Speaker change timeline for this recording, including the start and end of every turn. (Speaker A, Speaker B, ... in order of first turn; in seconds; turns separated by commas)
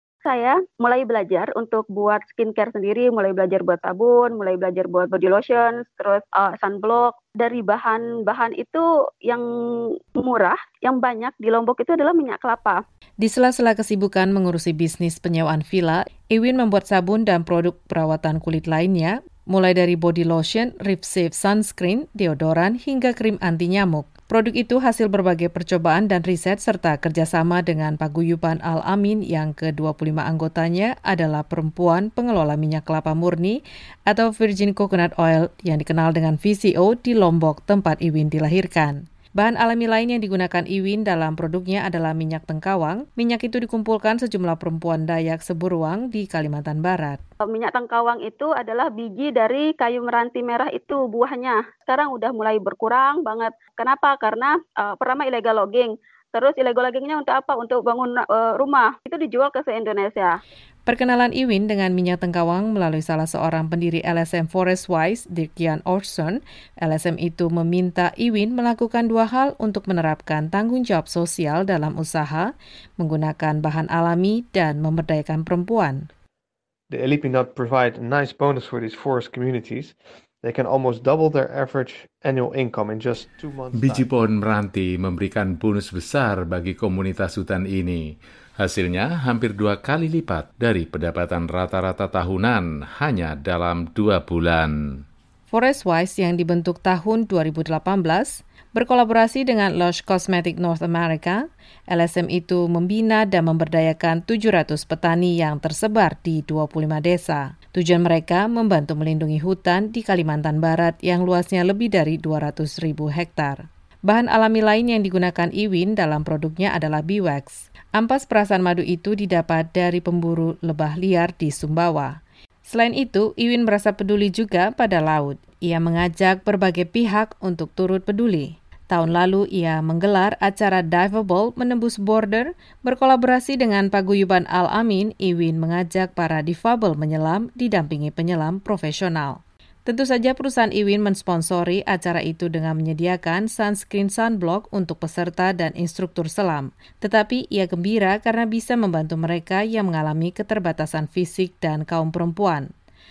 Speaker A: 0.2-9.4, Speaker A: 10.2-12.8, Speaker B: 13.2-47.2, Speaker A: 47.5-60.3, Speaker B: 60.9-76.1, Speaker C: 76.9-84.1, Speaker D: 83.8-88.0, Speaker D: 88.6-94.7, Speaker B: 95.5-152.7